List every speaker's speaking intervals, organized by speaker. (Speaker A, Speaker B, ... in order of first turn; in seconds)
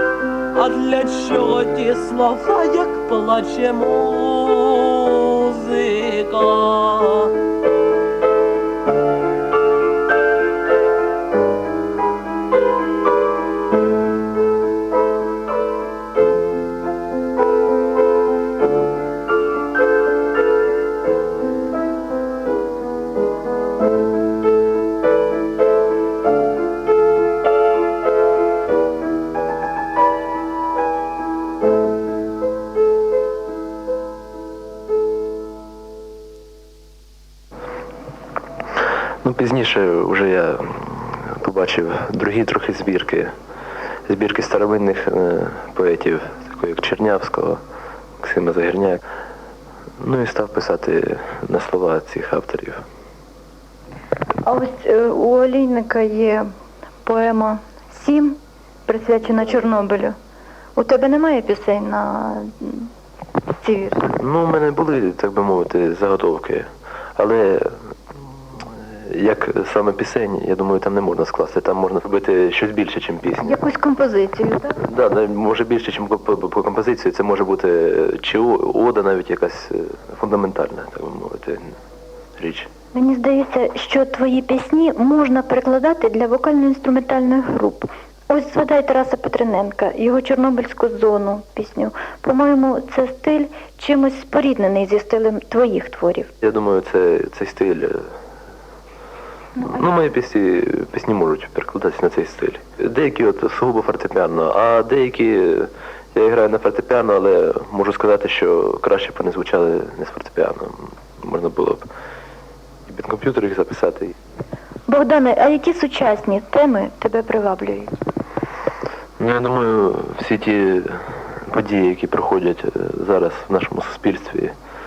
Speaker A: 0.5-7.3
Speaker B: 39.2-43.3, 44.1-47.6, 48.2-49.0, 50.0-52.8, 64.1-67.8, 68.6-73.6, 74.8-81.7, 82.4-82.7, 96.4-98.0, 99.6-111.8, 112.9-114.1, 119.2-124.5
Speaker C: 54.5-56.5, 57.0-60.1, 60.8-62.9, 63.6-64.1, 73.4-74.8, 82.9-96.3, 114.9-118.0